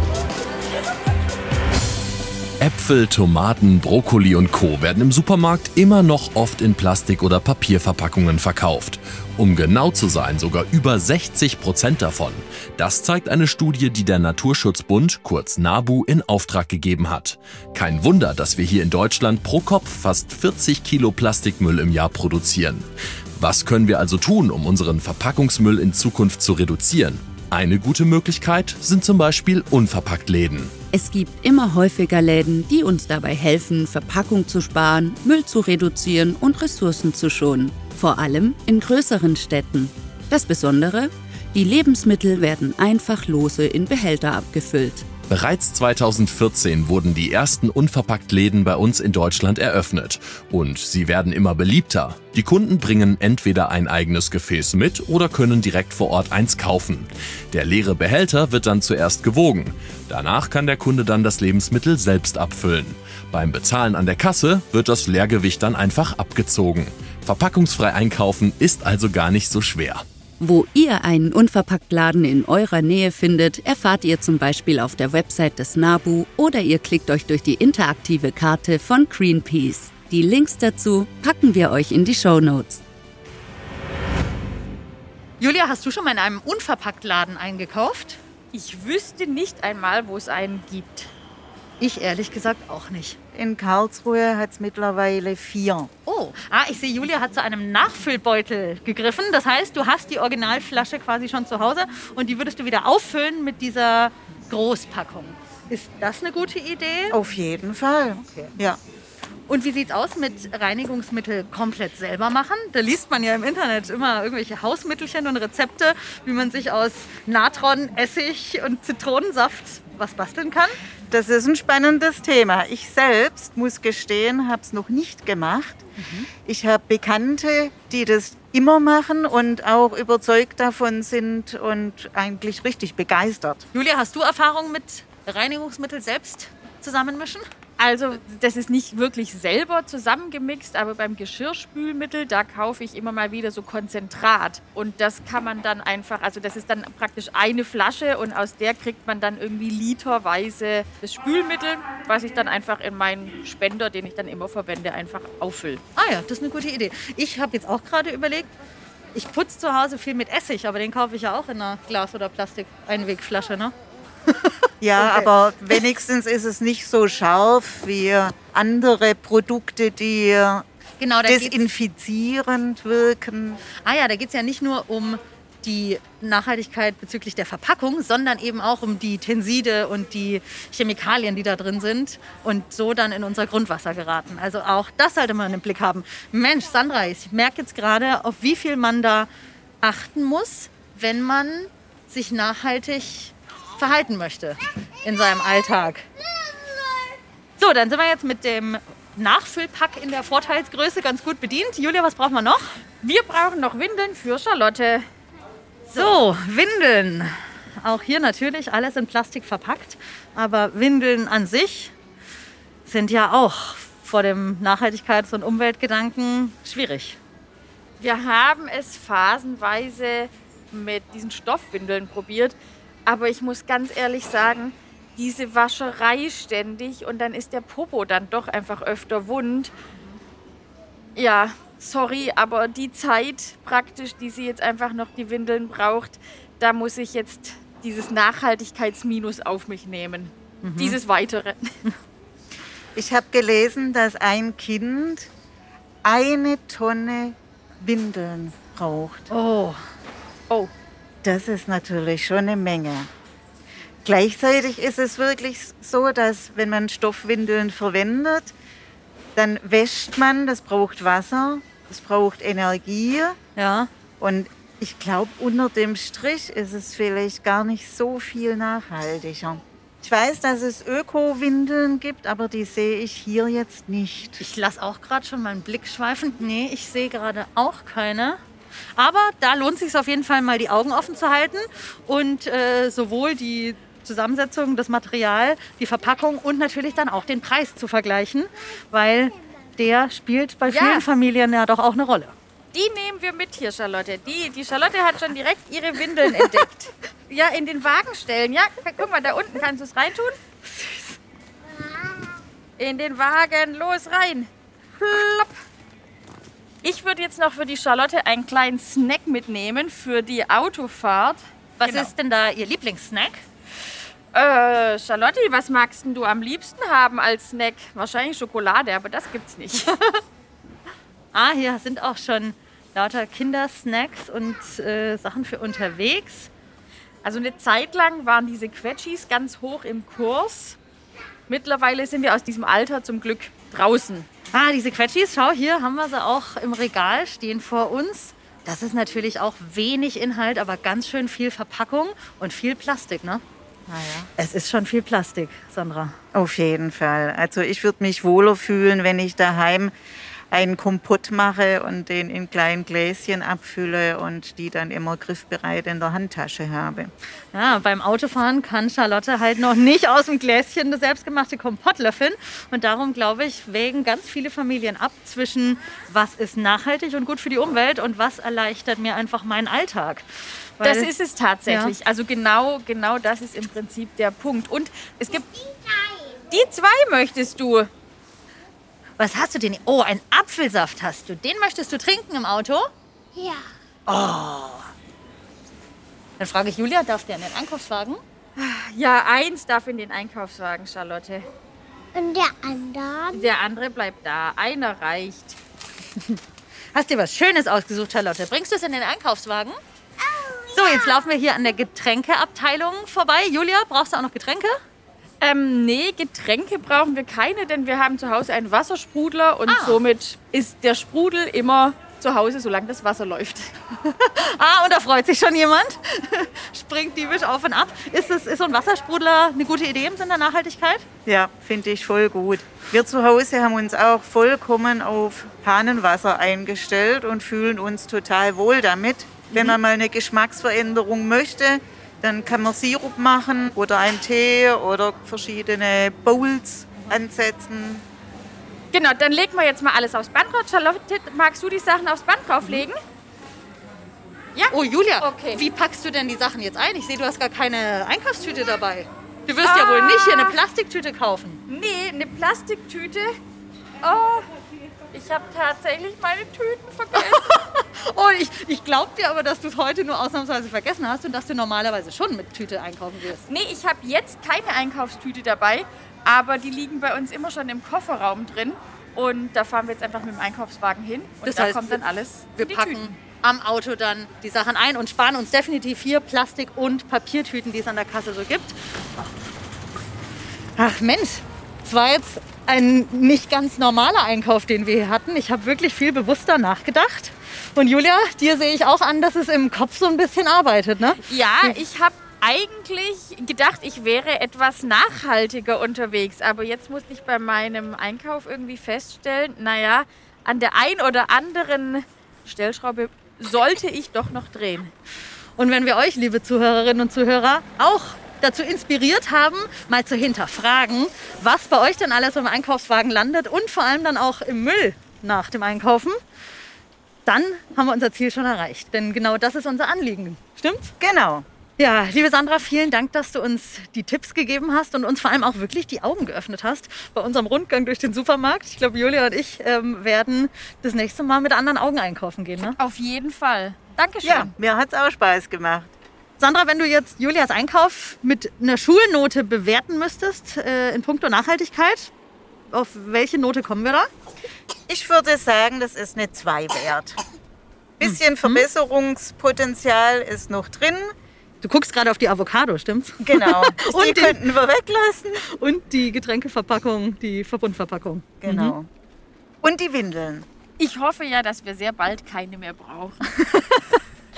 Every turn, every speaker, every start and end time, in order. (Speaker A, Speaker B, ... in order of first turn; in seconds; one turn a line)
Speaker A: 2.6-30.8
Speaker B: 30.9-45.1
Speaker A: 45.3-70.0
Speaker B: 70.4-82.8
Speaker C: 85.4-88.2
Speaker D: 88.5-91.1
Speaker C: 91.8-93.2
Speaker E: 93.3-95.9
Speaker C: 96.0-107.2
Speaker E: 107.1-108.8
Speaker C: 108.2-108.5
Speaker C: 109.5-120.8
Speaker E: 121.1-125.8
Speaker C: 126.0-126.3
Speaker E: 126.5-133.7
Speaker C: 133.7-137.4
Speaker D: 137.8-155.8
Speaker C: 155.9-158.5
Speaker C: 159.1-163.7
Speaker C: 164.3-165.3
Speaker E: 164.8-170.6
Speaker C: 171.0-171.6
Speaker E: 171.2-173.7
Speaker C: 173.8-189.3
Speaker C: 189.8-196.1
Speaker C: 197.6-202.7
Speaker D: 203.0-205.1
Speaker C: 205.9-211.9
Speaker C: 212.8-217.2
Speaker D: 218.0-229.7
Speaker D: 231.2-241.8
Speaker C: 240.6-241.0
Speaker E: 242.9-245.3
Speaker E: 246.0-249.3
Speaker C: 249.3-249.8
Speaker E: 251.2-253.1
Speaker E: 254.0-258.5
Speaker E: 259.4-263.4
Speaker C: 263.6-263.9
Speaker E: 264.2-274.4
Speaker C: 274.4-278.4
Speaker C: 278.9-292.3
Speaker D: 290.7-291.1
Speaker D: 292.7-300.4
Speaker C: 300.6-301.2
Speaker D: 302.8-305.6
Speaker D: 306.8-312.1
Speaker C: 311.8-313.4
Speaker D: 314.3-319.9
Speaker C: 319.8-320.2
Speaker C: 321.3-326.5
Speaker D: 327.2-330.8
Speaker D: 331.5-334.3
Speaker C: 334.5-343.4
Speaker E: 343.9-344.3
Speaker C: 344.4-346.1
Speaker E: 346.3-349.9
Speaker E: 350.5-357.1
Speaker C: 357.5-371.1
Speaker D: 370.8-375.5
Speaker C: 371.7-371.9
Speaker F: 375.7-376.3
Speaker D: 376.5-377.9
Speaker C: 379.2-382.9
Speaker F: 383.3-383.7
Speaker C: 384.1-384.9
Speaker C: 386.4-388.2
Speaker D: 388.6-391.4
Speaker F: 392.1-393.5
Speaker D: 393.3-395.6
Speaker C: 396.1-396.4
Speaker C: 396.9-399.8
Speaker F: 400.2-401.2
Speaker C: 400.7-404.8
Speaker D: 405.4-413.7
Speaker C: 409.7-410.0
Speaker C: 414.0-421.0
Speaker E: 421.2-438.0
Speaker D: 438.9-443.0
Speaker D: 444.6-445.6
Speaker C: 444.7-451.6
Speaker D: 449.6-450.6
Speaker D: 451.7-453.4
Speaker D: 454.0-454.5
Speaker D: 455.1-457.6
Speaker C: 457.1-463.4
Speaker D: 463.5-473.1
Speaker C: 471.4-472.0
Speaker C: 472.5-478.8
Speaker C: 480.8-491.8
Speaker D: 491.2-504.9
Speaker C: 505.6-516.2
Speaker C: 517.2-520.9
Speaker E: 521.0-521.4
Speaker C: 521.8-532.8
Speaker D: 532.8-534.5
Speaker E: 534.2-535.9
Speaker C: 536.4-542.1
Speaker C: 542.7-544.1
Speaker E: 544.9-547.2
Speaker E: 548.0-551.1
Speaker C: 548.0-548.6
Speaker C: 551.6-554.4
Speaker E: 553.2-555.4
Speaker C: 555.4-558.7
Speaker E: 558.4-558.9
Speaker E: 559.6-560.5
Speaker D: 560.8-563.3